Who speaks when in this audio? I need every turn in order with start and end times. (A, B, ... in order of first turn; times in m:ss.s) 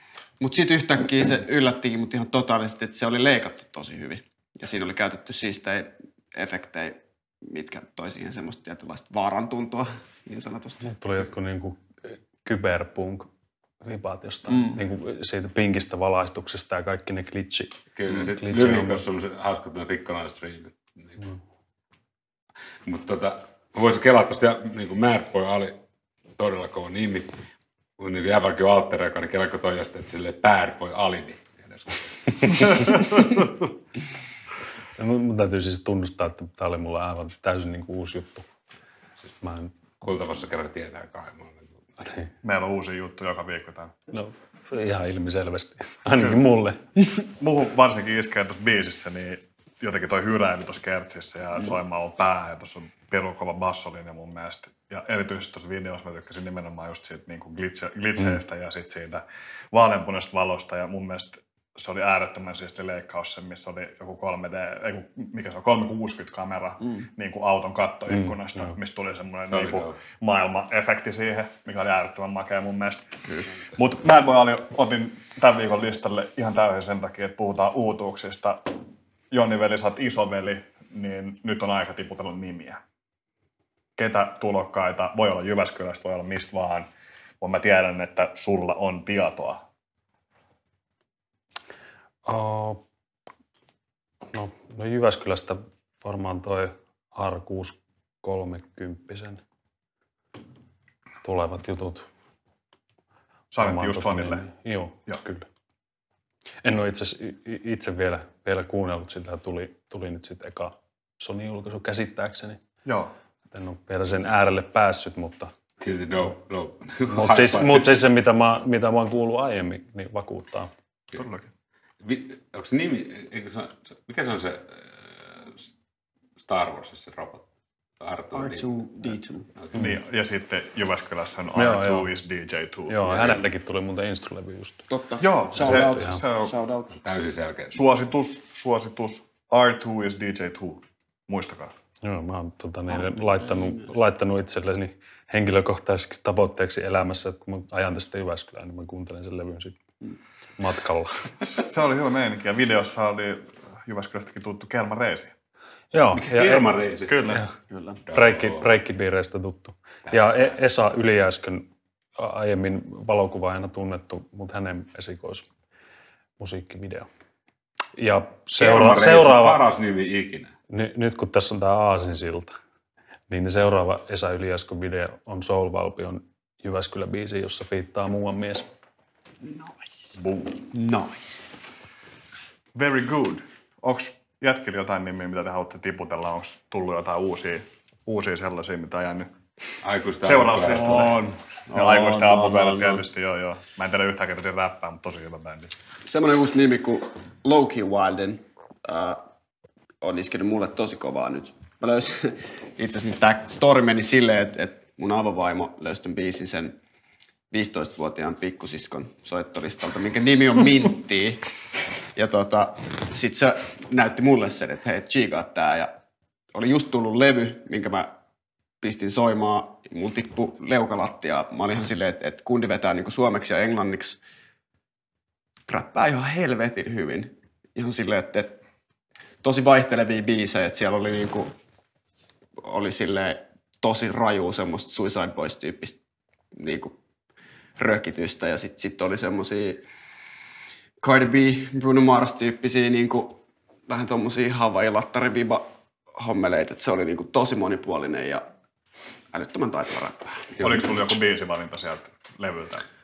0:00.4-0:10.9 A
0:10.8-0:13.3 B
0:13.8-0:19.0 B
0:14.5-0:14.8 A
0:17.9-0:21.2 C
0:22.8-0:25.8 C
0:26.4-0:27.4 C
0:28.0-0:33.2 C
0:34.9-0:38.5 B
0:39.4-0:39.7 B
0:40.0-0:41.8 C
0:42.0-0:42.3 B
0:42.4-0:43.9 D
0:44.1-0:46.8 B
0:47.4-1:13.2 D
1:08.1-1:08.7 B
1:09.5-1:10.0 C
1:13.7-1:18.7 D
1:19.3-1:22.8 D
1:24.0-1:26.9 D
1:27.4-1:29.6 D
1:32.2-1:32.8 B
1:34.2-1:39.4 B
1:41.2-1:42.1 B
1:43.5-1:44.4 D
1:43.6-1:45.5 B
1:46.6-1:52.6 B
1:52.8-1:53.1 D
1:53.5-1:55.5 B
1:55.8-1:58.0 C
1:57.0-2:00.7 B
2:01.1-2:01.5 D
2:02.0-2:05.7 C
2:06.4-2:07.5 C
2:08.0-2:09.9 C
2:08.3-2:09.5 A
2:09.7-2:13.3 D
2:11.5-2:12.1 B
2:12.9-2:14.8 B
2:14.9-2:16.9 A
2:15.2-2:16.5 D
2:15.5-2:16.2 B
2:16.9-2:17.8 C
2:17.7-2:21.7 D
2:22.0-2:29.8 B
2:22.9-2:23.9 A
2:30.6-2:31.3 B
2:31.6-2:35.3 D
2:35.9-2:37.5 B
2:36.1-2:37.4 C
2:37.1-2:37.4 D
2:37.7-2:38.0 A
2:38.0-2:38.7 C
2:38.1-2:45.5 B
2:40.1-2:40.5 C
2:46.4-2:47.1 B
2:47.9-2:49.6 B
2:48.6-2:50.5 C
2:50.7-2:52.5 B
2:53.3-2:58.7 B
2:59.4-3:00.1 A
3:00.2-3:00.7 D
3:00.7-3:01.4 A
3:02.7-3:09.3 D
3:09.8-3:11.2 C
3:10.2-3:15.7 D
3:11.0-3:12.1 B
3:11.8-3:13.0 A
3:16.0-3:19.2 A
3:20.0-3:26.8 A
3:27.5-3:31.4 A
3:32.1-3:35.9 A
3:36.5-3:38.1 A
3:38.8-3:44.2 A
3:45.7-3:48.6 A
3:49.4-3:51.5 A
3:52.6-3:56.0 A
3:56.5-3:56.9 A
3:57.8-3:59.8 A
4:01.0-4:08.4 A
4:09.3-4:10.9 A
4:10.6-4:12.8 D